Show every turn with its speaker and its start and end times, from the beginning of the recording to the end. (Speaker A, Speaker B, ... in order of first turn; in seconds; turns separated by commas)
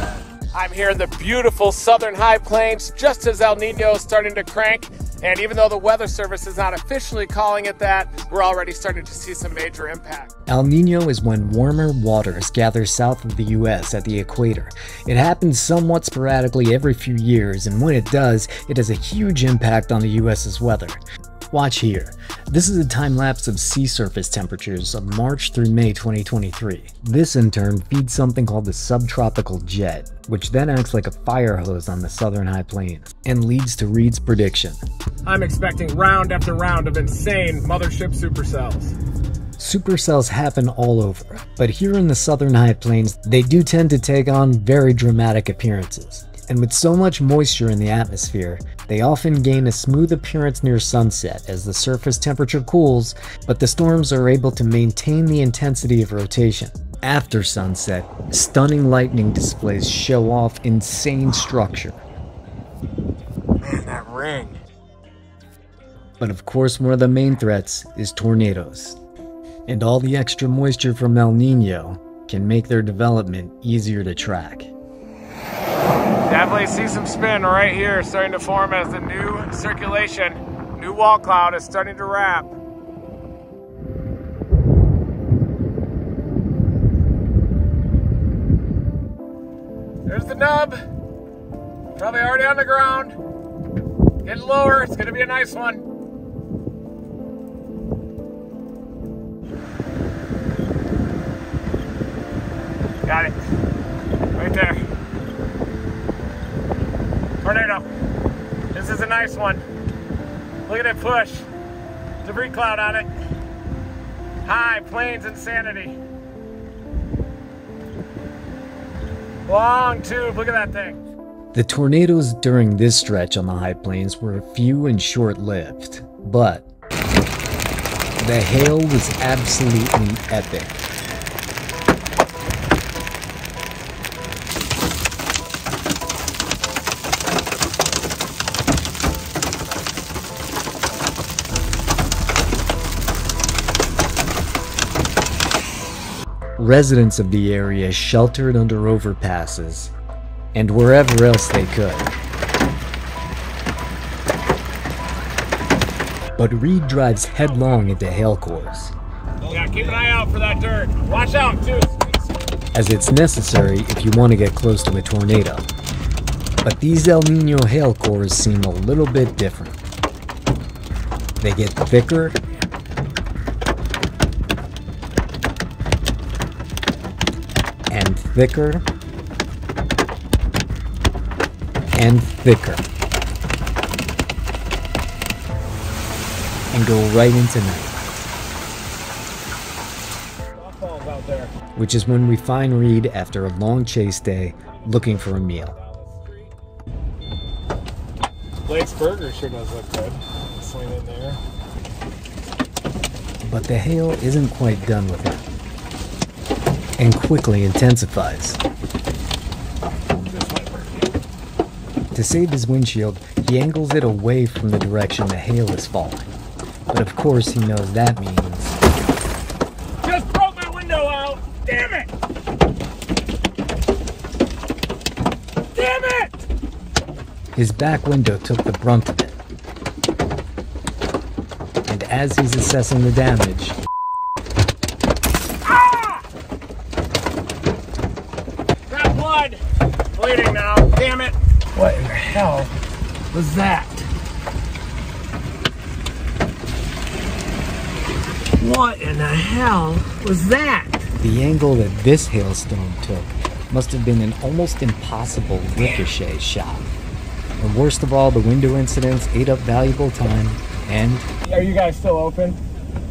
Speaker A: 0.5-10.3, Speaker B: 10.5-21.0, Speaker B: 21.5-34.8, Speaker A: 35.3-39.0, Speaker B: 39.6-62.0, Speaker A: 63.6-64.6, Speaker B: 66.2-69.0, Speaker B: 69.7-74.7, Speaker A: 76.3-82.5, Speaker A: 90.1-90.8, Speaker A: 92.0-93.2, Speaker A: 94.2-95.8, Speaker A: 103.1-103.4, Speaker A: 104.3-104.8, Speaker A: 107.4-107.8, Speaker A: 108.7-109.7, Speaker A: 110.7-111.5, Speaker A: 112.2-113.1, Speaker A: 114.4-116.0, Speaker A: 119.5-121.0, Speaker B: 121.5-126.7, Speaker B: 128.2-130.8, Speaker B: 146.6-149.9, Speaker B: 150.5-152.1, Speaker B: 156.4-158.9, Speaker A: 159.4-162.2, Speaker B: 162.7-165.7, Speaker B: 166.6-169.8, Speaker B: 171.4-172.4, Speaker B: 177.9-178.9, Speaker B: 182.0-182.8, Speaker B: 186.7-188.0, Speaker A: 190.6-191.5, Speaker B: 191.8-195.8, Speaker A: 194.8-196.5, Speaker A: 198.7-201.4, Speaker B: 203.4-205.5, Speaker B: 207.0-208.6, Speaker A: 210.2-211.1, Speaker B: 212.1-216.3, Speaker B: 216.9-218.8, Speaker A: 220.0-222.1, Speaker A: 225.7-226.4, Speaker B: 227.6-229.4, Speaker B: 231.8-233.8, Speaker A: 235.7-236.2, Speaker A: 238.9-239.6, Speaker A: 240.1-242.7, Speaker A: 243.3-244.1, Speaker A: 248.6-251.1, Speaker B: 251.2-256.9, Speaker A: 255.8-256.1, Speaker B: 257.6-261.3, Speaker A: 261.4-262.6